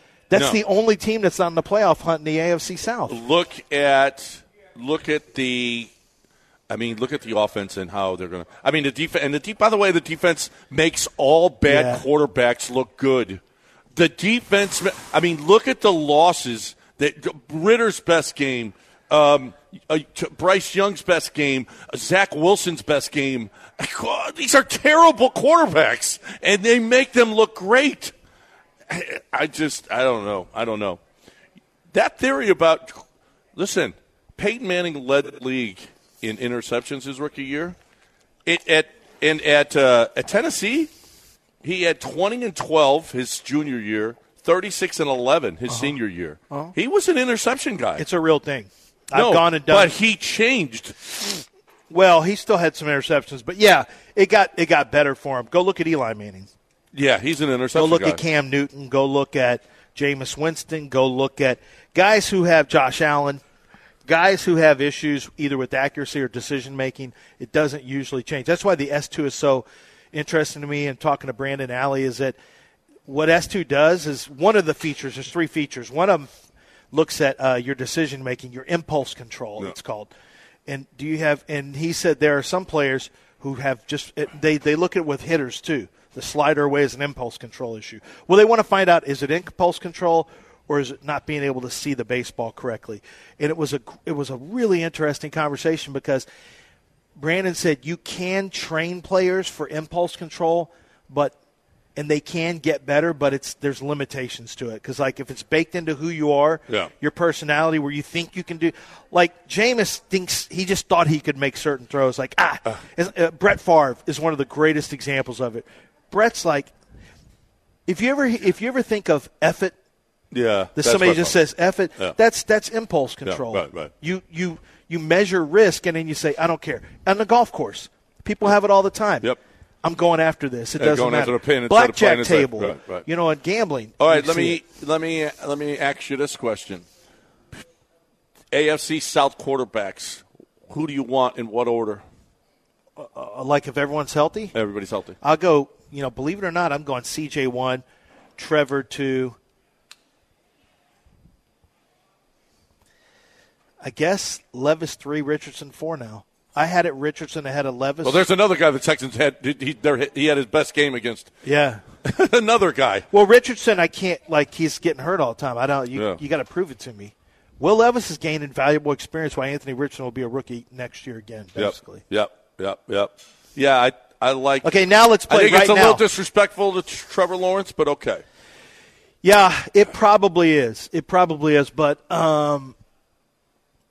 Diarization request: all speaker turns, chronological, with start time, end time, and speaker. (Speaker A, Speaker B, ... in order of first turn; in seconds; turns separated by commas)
Speaker A: 0.3-3.2, Speaker B: 0.3-0.6, Speaker B: 3.1-5.9, Speaker B: 6.7-13.4, Speaker A: 11.7-12.0, Speaker B: 13.9-28.1, Speaker B: 28.9-31.0, Speaker B: 31.9-33.0, Speaker B: 33.6-37.8, Speaker B: 38.5-40.9, Speaker B: 41.6-48.0, Speaker A: 45.7-46.0, Speaker A: 48.0-49.9, Speaker B: 49.1-51.4, Speaker A: 51.9-56.5, Speaker B: 56.9-58.2, Speaker A: 57.8-63.4, Speaker A: 64.1-72.4, Speaker A: 73.1-76.3, Speaker A: 76.9-80.1, Speaker A: 80.7-96.3, Speaker A: 97.2-101.3, Speaker A: 102.0-116.7, Speaker A: 117.9-119.8, Speaker B: 120.3-121.4, Speaker A: 120.8-129.3, Speaker B: 123.3-123.9, Speaker A: 129.8-134.6, Speaker B: 130.8-133.1, Speaker B: 134.0-136.8, Speaker B: 138.5-142.0, Speaker A: 143.0-144.5, Speaker B: 144.5-145.2, Speaker A: 145.2-147.8, Speaker A: 148.4-149.4, Speaker A: 153.8-158.2, Speaker B: 158.0-161.3, Speaker A: 161.4-161.8, Speaker B: 162.0-163.1, Speaker A: 163.1-172.0, Speaker B: 165.9-166.2, Speaker B: 171.6-174.7, Speaker A: 174.6-176.0, Speaker B: 175.3-178.2, Speaker A: 179.2-182.8